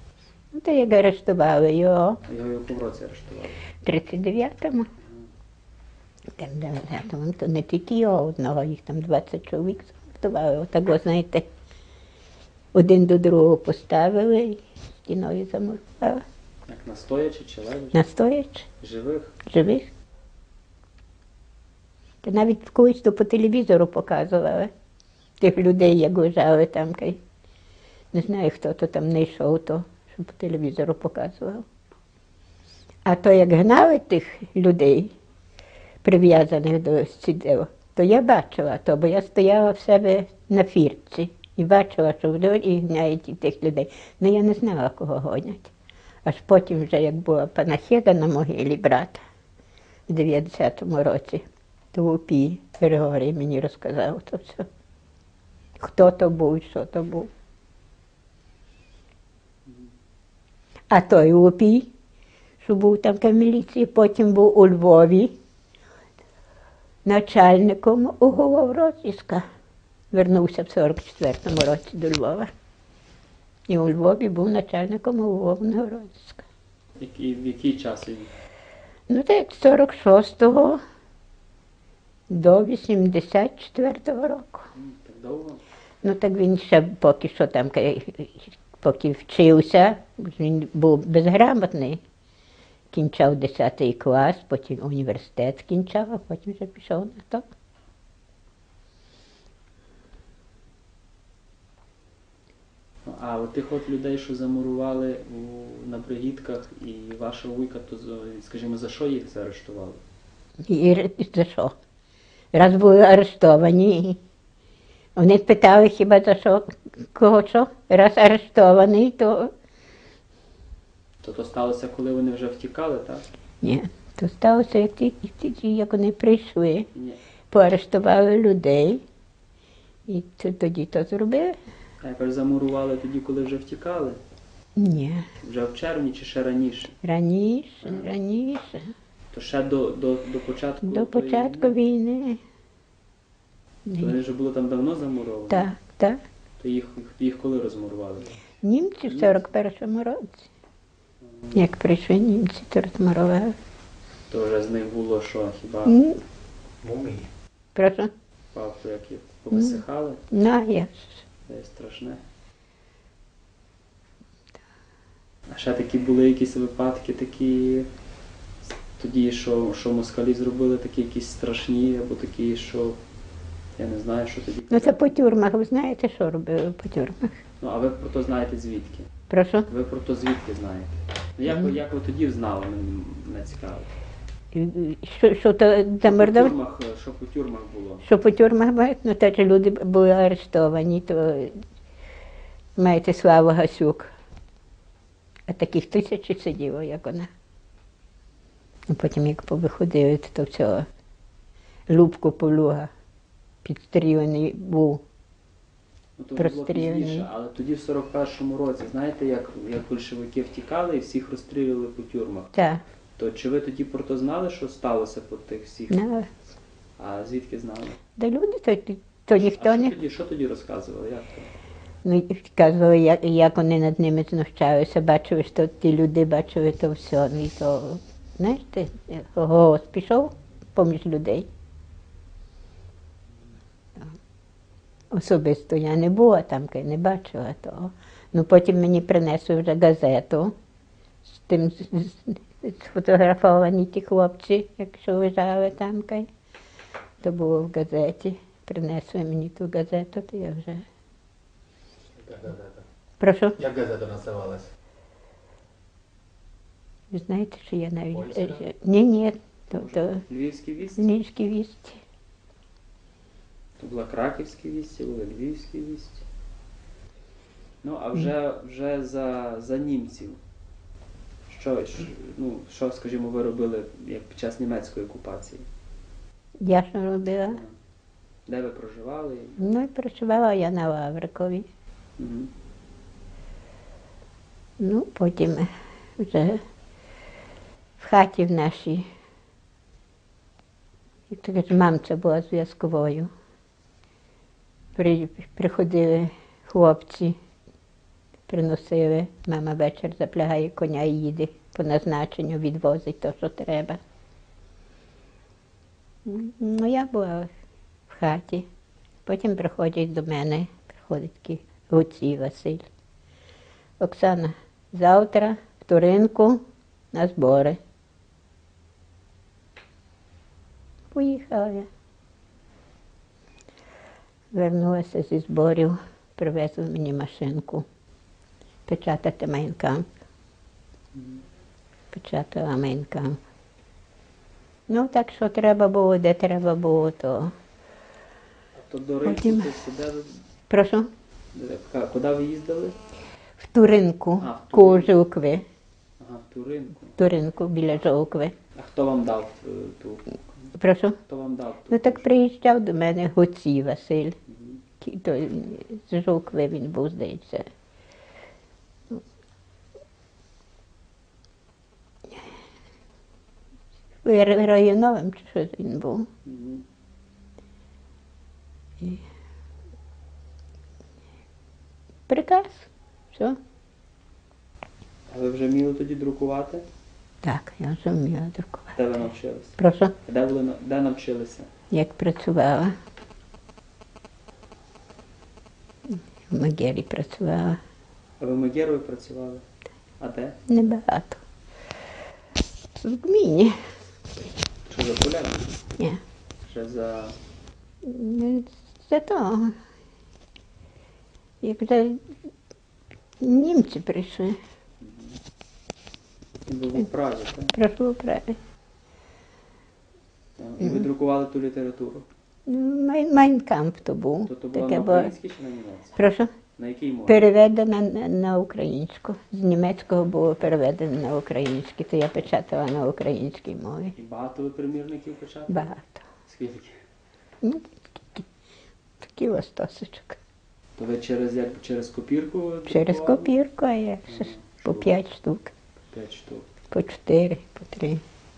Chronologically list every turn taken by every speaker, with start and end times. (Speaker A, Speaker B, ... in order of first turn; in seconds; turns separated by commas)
Speaker A: 0.5-2.2, Speaker B: 2.3-3.6, Speaker A: 3.8-4.9, Speaker A: 6.3-11.5, Speaker A: 12.7-16.2, Speaker B: 16.7-18.0, Speaker A: 17.9-18.7, Speaker B: 18.8-19.4, Speaker A: 19.5-19.9, Speaker A: 22.2-24.7, Speaker A: 25.4-27.2, Speaker A: 28.1-31.6, Speaker A: 33.0-35.1, Speaker A: 36.0-45.7, Speaker A: 46.2-49.2, Speaker A: 50.1-54.7, Speaker A: 55.8-57.3, Speaker A: 60.9-61.9, Speaker A: 62.6-65.3, Speaker A: 67.0-69.4, Speaker A: 70.1-72.5, Speaker A: 73.7-76.5, Speaker B: 77.0-78.3, Speaker A: 79.1-80.8, Speaker A: 82.3-84.7, Speaker B: 84.7-85.6, Speaker A: 86.0-92.0, Speaker A: 92.9-97.5, Speaker B: 103.0-110.0, Speaker A: 110.7-111.8, Speaker A: 112.5-114.2, Speaker A: 115.2-119.5, Speaker B: 121.2-123.3, Speaker A: 123.6-126.9, Speaker B: 126.9-127.2, Speaker A: 127.5-129.0, Speaker A: 130.1-131.6, Speaker B: 132.0-134.2, Speaker A: 134.8-135.3, Speaker B: 135.4-137.0, Speaker A: 137.0-138.9, Speaker B: 137.8-138.1, Speaker B: 139.3-141.8, Speaker A: 140.8-142.4, Speaker A: 143.9-144.2, Speaker B: 144.0-145.7, Speaker A: 145.5-146.2, Speaker B: 146.6-148.4, Speaker A: 148.6-150.5, Speaker B: 149.1-149.4, Speaker A: 151.5-153.6, Speaker B: 154.3-156.0, Speaker A: 155.9-156.2, Speaker C: 156.8-157.3, Speaker A: 157.8-158.1, Speaker B: 158.5-160.2, Speaker A: 159.5-161.2, Speaker B: 161.4-162.2, Speaker B: 165.5-167.9, Speaker B: 168.8-173.0, Speaker B: 173.8-175.1, Speaker A: 174.7-177.4, Speaker B: 177.6-179.1, Speaker A: 179.3-179.7, Speaker B: 179.7-183.9, Speaker A: 184.5-186.5, Speaker B: 186.0-188.1, Speaker A: 188.0-191.6, Speaker A: 192.8-194.1, Speaker A: 195.5-197.3, Speaker A: 198.9-200.9, Speaker A: 201.9-202.9, Speaker A: 203.6-205.0, Speaker B: 206.2-212.7, Speaker A: 206.4-207.3, Speaker A: 212.5-212.8, Speaker B: 213.2-216.0, Speaker A: 215.9-216.3, Speaker B: 217.0-218.0, Speaker A: 218.2-219.9, Speaker B: 219.3-221.5, Speaker A: 222.0-231.5, Speaker A: 235.1-240.5, Speaker A: 241.2-246.3, Speaker A: 247.2-250.8, Speaker C: 252.2-252.8, Speaker A: 253.2-253.7, Speaker C: 253.6-254.7, Speaker A: 257.1-260.2, Speaker B: 259.7-261.1, Speaker A: 261.0-262.0, Speaker B: 263.8-266.2, Speaker B: 267.8-270.4, Speaker B: 271.5-275.6, Speaker A: 276.6-277.6, Speaker B: 277.5-277.8, Speaker B: 278.5-279.6, Speaker A: 279.6-281.7, Speaker B: 282.2-282.5, Speaker A: 284.8-286.6, Speaker A: 288.0-289.1, Speaker A: 291.3-293.3, Speaker A: 295.0-297.4, Speaker A: 298.5-304.0, Speaker A: 306.2-307.5, Speaker A: 308.1-308.7, Speaker A: 309.2-312.9, Speaker A: 314.0-317.8, Speaker A: 321.1-321.9, Speaker A: 324.5-327.9, Speaker A: 328.9-330.1, Speaker B: 331.1-331.4, Speaker A: 332.1-333.4, Speaker A: 334.9-337.5, Speaker B: 338.8-340.4, Speaker A: 339.2-339.7, Speaker A: 340.7-341.1, Speaker B: 341.5-343.0, Speaker A: 343.6-345.6, Speaker B: 344.4-345.2, Speaker B: 346.2-347.2, Speaker A: 347.2-348.6, Speaker B: 348.7-350.7, Speaker A: 350.8-351.2, Speaker B: 351.3-352.3, Speaker A: 351.9-354.4, Speaker B: 354.5-354.8, Speaker A: 355.0-357.7, Speaker A: 364.2-366.3, Speaker B: 366.4-366.8, Speaker A: 372.3-373.6, Speaker B: 375.3-376.9, Speaker A: 377.4-379.0, Speaker B: 378.9-381.7, Speaker A: 379.8-380.1, Speaker A: 381.9-382.9, Speaker A: 386.1-387.8, Speaker B: 388.4-389.6, Speaker B: 390.2-390.6, Speaker A: 390.7-391.4, Speaker A: 393.0-393.7, Speaker B: 394.9-395.7, Speaker B: 396.6-397.4, Speaker A: 398.0-399.8, Speaker A: 401.6-402.2, Speaker A: 403.4-404.6, Speaker B: 405.0-405.4, Speaker B: 406.6-407.8, Speaker A: 407.7-408.6, Speaker B: 410.6-412.3, Speaker A: 412.7-415.3, Speaker B: 414.5-416.2, Speaker A: 416.2-416.5, Speaker B: 416.8-417.5, Speaker A: 417.3-424.1, Speaker B: 424.2-425.9, Speaker A: 425.7-426.2, Speaker B: 426.5-427.0, Speaker A: 427.6-428.5, Speaker A: 429.2-430.4, Speaker B: 431.0-433.5, Speaker A: 432.9-435.7, Speaker B: 434.3-435.1, Speaker B: 436.1-436.7, Speaker A: 436.9-438.2